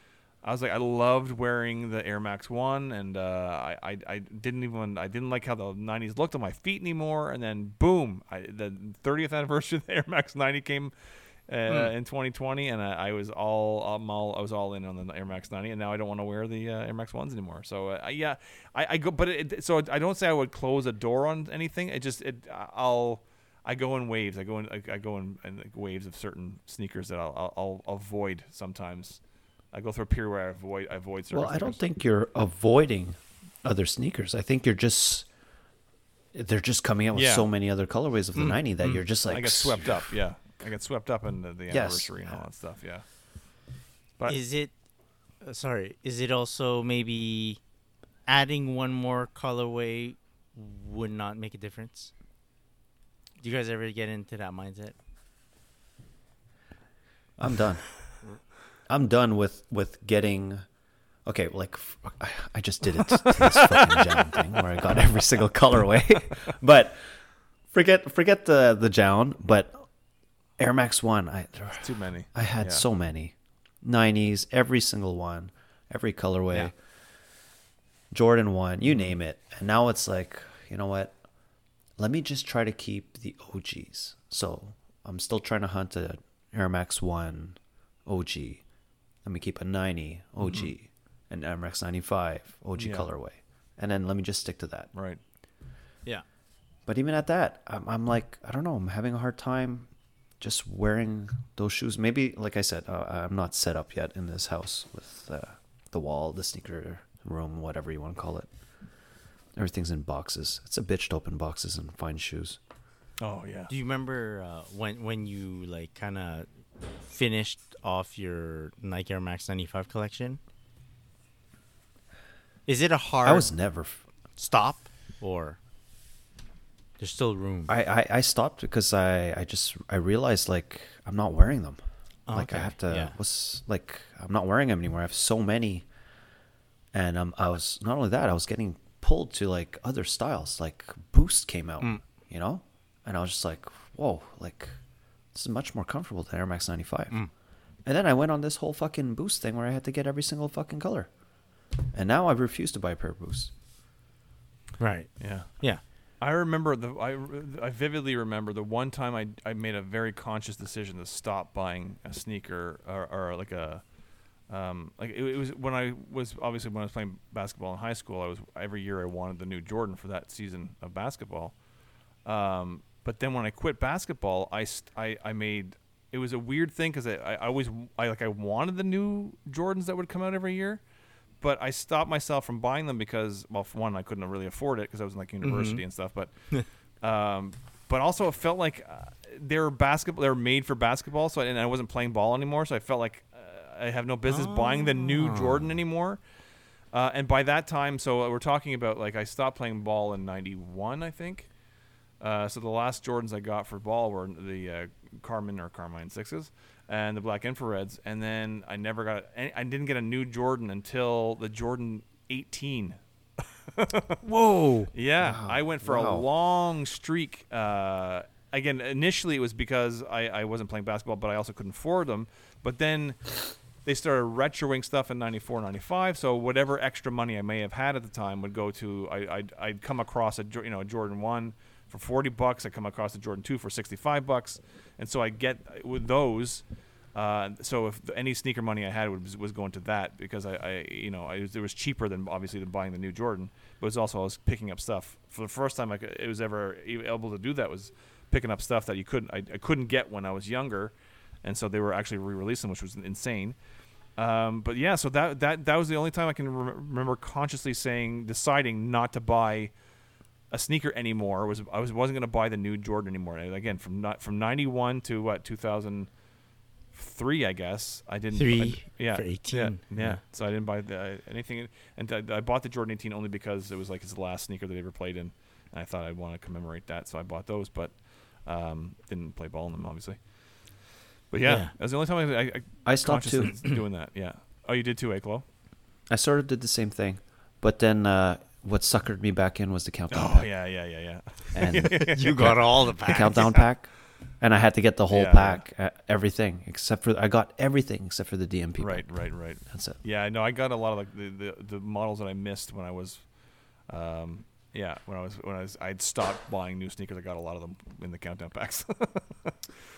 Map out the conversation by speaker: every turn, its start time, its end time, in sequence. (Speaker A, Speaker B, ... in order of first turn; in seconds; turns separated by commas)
Speaker A: 0.4-10.9, Speaker A: 11.5-29.2, Speaker B: 11.7-11.9, Speaker A: 29.7-31.8, Speaker C: 31.3-35.3, Speaker C: 36.3-40.1, Speaker A: 37.1-37.5, Speaker B: 38.4-39.0, Speaker A: 39.3-43.0, Speaker C: 41.7-42.4, Speaker B: 44.3-44.7, Speaker B: 45.4-47.6, Speaker B: 48.3-52.1, Speaker B: 53.4-55.0, Speaker C: 57.4-57.8, Speaker C: 58.9-60.6, Speaker C: 61.3-67.1, Speaker A: 63.0-64.6, Speaker C: 67.7-69.9, Speaker C: 70.6-76.7, Speaker A: 71.8-72.8, Speaker C: 78.1-81.2, Speaker C: 82.0-88.6, Speaker C: 89.2-94.9, Speaker A: 92.8-93.1, Speaker A: 94.9-95.2, Speaker C: 96.9-99.9, Speaker C: 100.4-108.5, Speaker C: 109.6-112.6, Speaker A: 113.2-113.7, Speaker B: 113.7-116.5, Speaker B: 117.0-120.4, Speaker B: 122.7-123.5, Speaker C: 123.2-124.0, Speaker B: 124.4-125.6, Speaker B: 127.0-127.7, Speaker C: 127.7-131.8, Speaker B: 132.3-133.2, Speaker C: 132.3-135.9, Speaker C: 136.9-144.8, Speaker C: 145.3-147.2, Speaker C: 147.8-151.1, Speaker C: 151.9-153.5, Speaker B: 154.8-155.8, Speaker A: 155.2-155.5, Speaker A: 156.2-163.8, Speaker A: 164.5-171.6, Speaker A: 172.2-180.8, Speaker A: 181.4-186.3, Speaker B: 185.4-185.8, Speaker A: 187.0-196.2, Speaker B: 194.3-195.7, Speaker A: 196.9-201.5, Speaker A: 202.2-213.0, Speaker A: 213.7-214.2, Speaker B: 214.2-214.9, Speaker A: 214.9-236.6, Speaker C: 215.2-216.3, Speaker A: 237.2-253.6, Speaker A: 254.2-259.7, Speaker A: 260.5-266.1, Speaker A: 266.9-280.2, Speaker B: 268.3-270.2, Speaker A: 281.3-285.4, Speaker B: 281.4-281.7, Speaker C: 282.9-283.6, Speaker C: 286.1-290.5, Speaker A: 290.1-292.7, Speaker C: 291.5-293.9, Speaker B: 291.8-293.6, Speaker A: 293.2-293.6, Speaker C: 294.4-299.1, Speaker A: 295.1-295.6, Speaker A: 298.8-303.2, Speaker C: 299.7-300.0, Speaker A: 303.9-309.6